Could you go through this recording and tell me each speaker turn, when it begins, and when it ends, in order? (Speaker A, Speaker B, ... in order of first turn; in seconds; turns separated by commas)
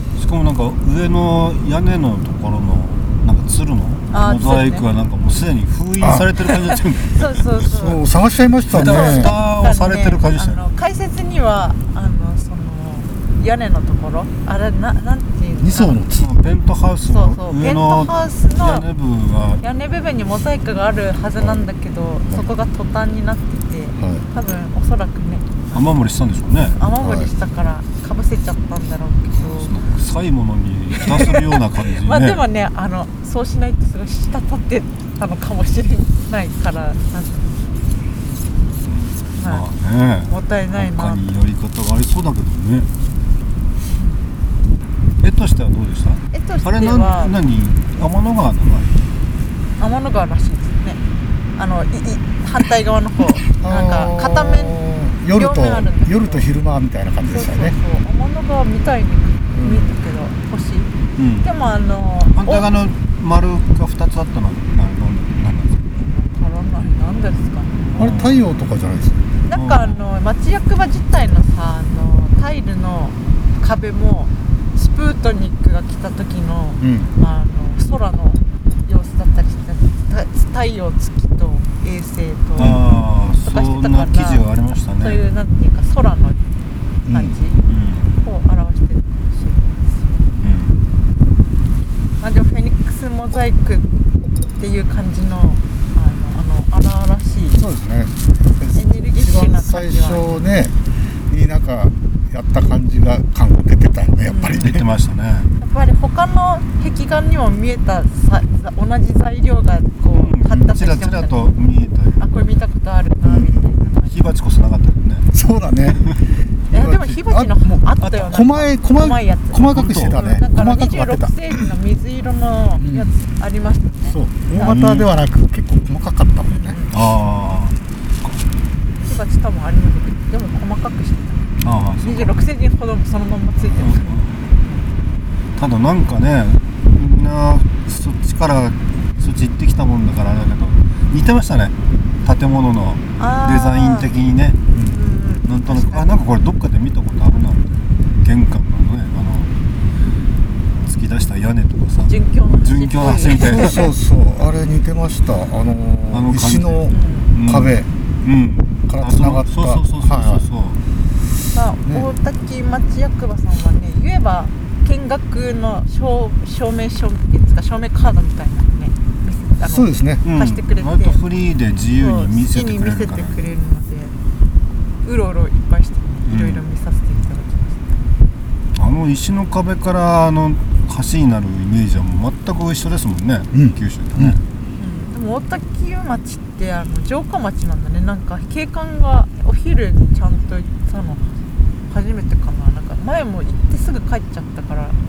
Speaker A: 0.1-7.4, Speaker B: 4.1-4.8, Speaker C: 6.0-6.4, Speaker B: 7.0-8.0, Speaker C: 7.6-9.3, Speaker A: 8.7-10.6, Speaker B: 8.7-16.0, Speaker C: 15.6-16.3, Speaker A: 16.1-19.6, Speaker B: 17.1-18.9, Speaker B: 19.6-25.9, Speaker C: 21.4-21.6, Speaker C: 24.0-24.2, Speaker A: 25.7-26.8, Speaker B: 26.6-29.7, Speaker C: 27.0-27.3, Speaker A: 29.4-32.4, Speaker B: 31.0-37.5, Speaker A: 38.8-42.9, Speaker B: 39.4-39.7, Speaker B: 40.3-41.2, Speaker B: 43.9-44.2, Speaker A: 45.2-48.9, Speaker B: 46.3-47.4, Speaker B: 49.8-51.0, Speaker B: 51.5-54.8, Speaker C: 53.6-57.8, Speaker B: 55.3-56.5, Speaker B: 57.2-60.9, Speaker C: 59.5-59.9, Speaker A: 61.2-61.5, Speaker B: 61.4-62.7, Speaker A: 62.3-66.0, Speaker B: 65.9-67.8, Speaker A: 67.9-68.4, Speaker C: 68.0-69.2, Speaker B: 69.5-82.8, Speaker A: 69.5-70.0, Speaker C: 76.8-77.1, Speaker A: 82.6-85.2, Speaker C: 82.6-82.8, Speaker B: 83.4-84.4, Speaker B: 85.0-86.5, Speaker C: 87.0-87.3, Speaker B: 87.1-87.6, Speaker A: 87.6-88.1, Speaker B: 88.1-90.2, Speaker A: 90.4-90.8, Speaker B: 92.2-93.9, Speaker B: 94.6-97.6, Speaker C: 97.5-100.7, Speaker B: 98.7-100.4, Speaker C: 101.3-104.9, Speaker B: 104.3-104.7, Speaker A: 104.5-105.5, Speaker B: 105.6-111.5, Speaker A: 110.1-112.2, Speaker B: 112.2-114.2, Speaker A: 114.0-115.3, Speaker C: 115.3-116.2, Speaker C: 116.7-121.3, Speaker B: 116.7-124.8, Speaker A: 119.6-120.2, Speaker C: 122.8-123.1, Speaker C: 124.1-126.8, Speaker A: 124.6-125.1, Speaker B: 126.5-127.0, Speaker A: 126.9-128.3, Speaker B: 129.0-134.8, Speaker A: 131.6-132.4, Speaker A: 133.7-134.4, Speaker A: 135.6-144.6, Speaker B: 143.2-144.1, Speaker B: 144.9-146.2, Speaker A: 145.4-149.5, Speaker A: 150.8-153.9, Speaker B: 152.1-153.9, Speaker C: 153.4-157.9, Speaker A: 156.1-160.8, Speaker B: 156.9-157.3, Speaker C: 158.9-160.4, Speaker B: 161.5-171.2, Speaker C: 169.6-170.2, Speaker A: 170.2-173.4, Speaker B: 171.9-174.1, Speaker B: 175.0-178.0, Speaker A: 176.2-176.6, Speaker A: 178.7-184.4, Speaker C: 183.5-184.4, Speaker B: 184.8-191.3, Speaker B: 191.9-195.0